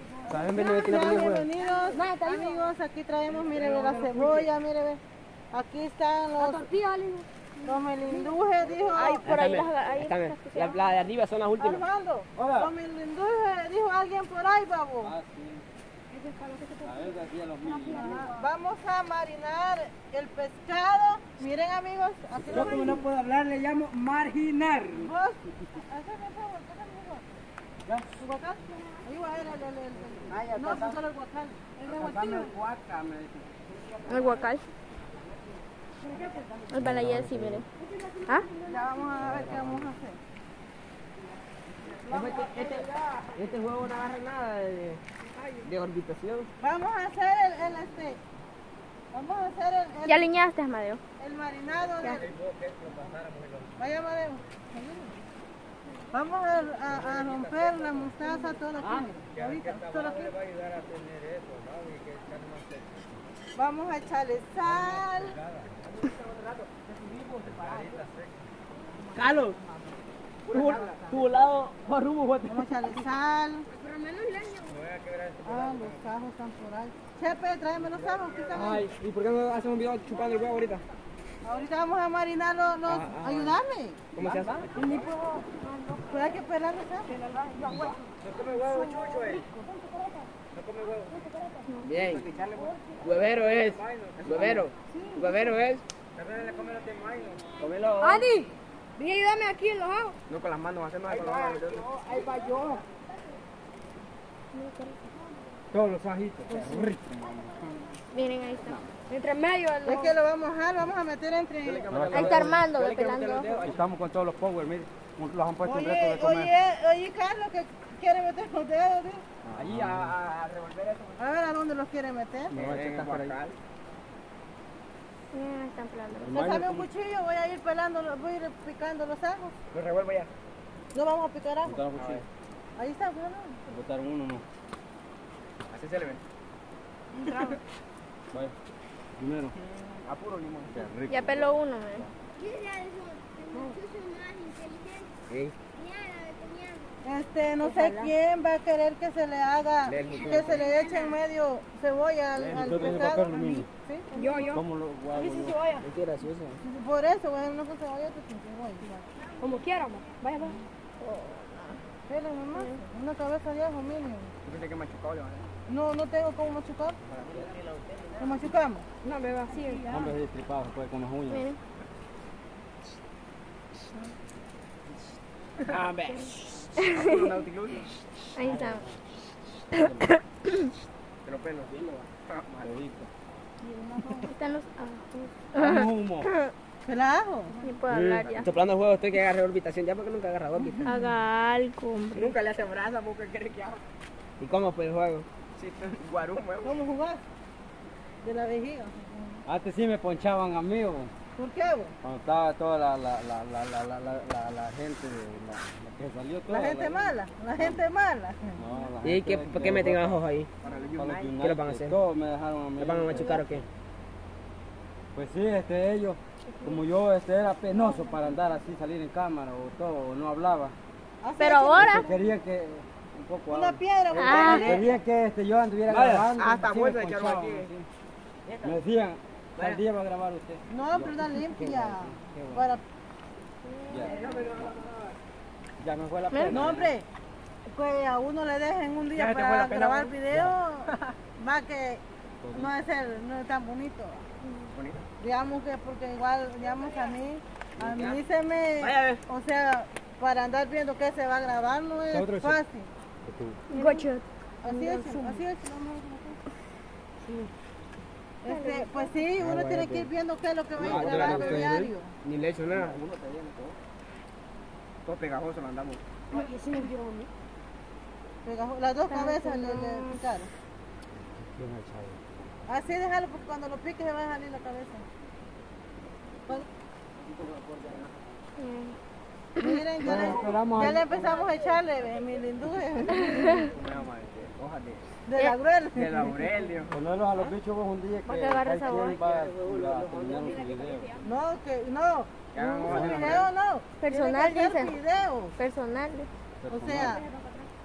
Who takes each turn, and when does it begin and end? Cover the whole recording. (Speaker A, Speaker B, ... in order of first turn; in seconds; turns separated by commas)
Speaker A: 0.3-1.5, Speaker B: 0.4-5.0, Speaker C: 1.7-2.7, Speaker C: 3.5-4.5, Speaker B: 5.5-6.7, Speaker C: 6.4-7.3, Speaker B: 7.6-9.2, Speaker C: 8.1-8.4, Speaker D: 8.9-10.9, Speaker A: 9.2-11.8, Speaker B: 11.6-15.1, Speaker E: 12.4-12.7, Speaker E: 15.0-15.6, Speaker C: 16.1-17.1, Speaker E: 16.8-18.2, Speaker C: 17.6-18.4, Speaker B: 17.9-23.0, Speaker E: 22.4-25.1, Speaker B: 24.9-27.2, Speaker B: 28.1-31.7, Speaker E: 30.3-31.0, Speaker C: 31.8-32.5, Speaker E: 31.8-33.5, Speaker D: 34.1-34.6, Speaker D: 36.7-37.6, Speaker E: 36.8-37.6, Speaker B: 38.6-40.2, Speaker E: 39.2-39.9, Speaker A: 42.1-46.5, Speaker B: 46.6-48.2, Speaker B: 49.1-50.3, Speaker D: 50.0-51.0, Speaker B: 51.2-52.3, Speaker E: 51.8-53.8, Speaker B: 53.8-55.1, Speaker B: 56.1-60.3, Speaker E: 56.9-58.1, Speaker E: 58.9-63.2, Speaker B: 63.5-65.3, Speaker E: 64.6-65.8, Speaker A: 66.0-66.8, Speaker E: 67.2-68.5, Speaker A: 69.1-69.6, Speaker A: 70.5-72.6, Speaker B: 70.5-71.0, Speaker B: 72.5-73.7, Speaker C: 73.7-74.7, Speaker E: 74.6-76.0, Speaker B: 75.4-78.8, Speaker E: 77.9-78.6, Speaker A: 78.5-80.8, Speaker B: 81.4-84.0, Speaker A: 82.8-83.6, Speaker A: 84.1-84.7, Speaker E: 84.2-85.1, Speaker C: 84.8-86.0, Speaker B: 86.1-87.1, Speaker C: 87.1-88.0, Speaker E: 88.2-89.5, Speaker C: 88.7-89.3, Speaker E: 90.5-91.2, Speaker A: 91.8-95.8, Speaker E: 93.1-94.7, Speaker E: 96.1-97.5, Speaker A: 97.6-98.2, Speaker C: 98.0-100.2, Speaker A: 100.3-101.8, Speaker E: 101.1-102.8, Speaker D: 104.5-105.0, Speaker E: 105.7-107.0, Speaker A: 106.7-107.5, Speaker D: 108.1-108.8, Speaker C: 109.0-110.1, Speaker B: 109.8-111.9, Speaker A: 111.6-113.8, Speaker E: 111.9-112.6, Speaker D: 112.1-113.6, Speaker E: 113.6-116.5, Speaker B: 115.6-119.2, Speaker A: 119.4-121.2, Speaker E: 119.5-120.1, Speaker B: 121.2-122.6, Speaker E: 122.5-123.3, Speaker A: 122.5-123.5, Speaker D: 125.3-126.3, Speaker E: 126.2-126.9, Speaker B: 126.3-129.6, Speaker A: 129.7-130.3, Speaker B: 130.9-131.8, Speaker E: 131.6-132.2, Speaker A: 132.0-132.2, Speaker B: 132.8-133.6, Speaker E: 133.7-134.4, Speaker A: 135.7-136.2, Speaker E: 139.2-139.5, Speaker A: 139.6-140.8, Speaker E: 140.7-141.5, Speaker D: 141.1-142.1, Speaker C: 142.4-144.7, Speaker A: 145.3-145.5, Speaker C: 146.3-146.8, Speaker B: 147.0-154.0, Speaker C: 147.6-148.1, Speaker A: 149.9-150.7, Speaker E: 152.3-153.7, Speaker C: 154.1-155.9, Speaker E: 154.5-155.6, Speaker A: 155.8-156.6, Speaker B: 156.6-159.0, Speaker C: 159.4-160.6, Speaker D: 161.0-161.8, Speaker B: 162.1-164.3, Speaker D: 162.5-162.8, Speaker A: 164.4-165.5, Speaker B: 165.7-167.0, Speaker A: 167.1-168.2, Speaker B: 168.2-168.8, Speaker C: 169.0-170.0, Speaker E: 169.9-171.5, Speaker D: 171.3-171.6, Speaker A: 175.6-177.9, Speaker D: 178.3-178.9, Speaker E: 178.4-178.9, Speaker E: 179.7-180.1, Speaker A: 181.2-182.7, Speaker E: 182.6-183.1, Speaker C: 183.6-184.2, Speaker D: 184.1-186.5, Speaker E: 185.6-186.3, Speaker B: 186.8-187.5, Speaker D: 187.6-188.5, Speaker E: 187.9-188.5, Speaker A: 188.4-190.9, Speaker B: 190.7-190.9, Speaker D: 190.8-192.3, Speaker A: 192.1-193.8, Speaker A: 194.4-196.7, Speaker B: 196.6-197.2, Speaker B: 198.2-199.4, Speaker E: 199.4-201.1, Speaker B: 201.3-201.9, Speaker E: 202.0-207.8, Speaker B: 206.5-208.6, Speaker E: 208.6-210.2, Speaker A: 209.0-212.0, Speaker E: 211.0-213.4, Speaker A: 212.8-213.7, Speaker D: 213.1-213.4, Speaker E: 215.1-220.8, Speaker B: 221.2-222.1, Speaker D: 221.4-222.1, Speaker E: 221.8-227.9, Speaker B: 223.5-224.9, Speaker D: 224.1-224.7, Speaker A: 225.9-227.7, Speaker A: 228.5-228.7, Speaker E: 228.6-232.6, Speaker B: 230.7-232.8, Speaker E: 233.9-234.2, Speaker A: 234.0-234.9, Speaker E: 235.8-236.9, Speaker D: 236.3-236.6, Speaker B: 236.4-237.1, Speaker A: 236.5-236.8, Speaker B: 237.7-244.2, Speaker A: 239.2-240.1, Speaker E: 242.4-242.7, Speaker A: 244.7-245.0, Speaker B: 245.2-252.9, Speaker A: 247.8-248.2, Speaker A: 248.8-249.2, Speaker E: 252.1-252.6, Speaker E: 253.2-253.6, Speaker C: 253.7-255.4, Speaker D: 253.7-254.1, Speaker B: 254.6-256.4, Speaker B: 258.4-262.1, Speaker D: 258.5-259.1, Speaker E: 259.4-260.1, Speaker E: 260.8-261.9, Speaker A: 260.8-263.7, Speaker A: 265.1-266.0, Speaker C: 266.3-267.3, Speaker B: 268.4-270.5, Speaker D: 269.1-270.2, Speaker E: 271.4-272.2, Speaker B: 272.7-275.0, Speaker D: 278.6-278.9, Speaker B: 279.6-283.7, Speaker E: 280.0-281.2, Speaker D: 283.3-283.6, Speaker A: 283.5-285.1, Speaker B: 285.3-286.4, Speaker A: 286.0-286.9, Speaker E: 286.9-291.1, Speaker D: 288.2-289.2, Speaker A: 289.2-290.5, Speaker C: 290.4-291.2, Speaker B: 291.2-295.5, Speaker A: 292.5-293.5, Speaker E: 292.8-293.4, Speaker D: 294.0-294.9, Speaker D: 295.6-296.3, Speaker E: 296.6-297.2, Speaker B: 296.7-297.2, Speaker C: 297.1-297.7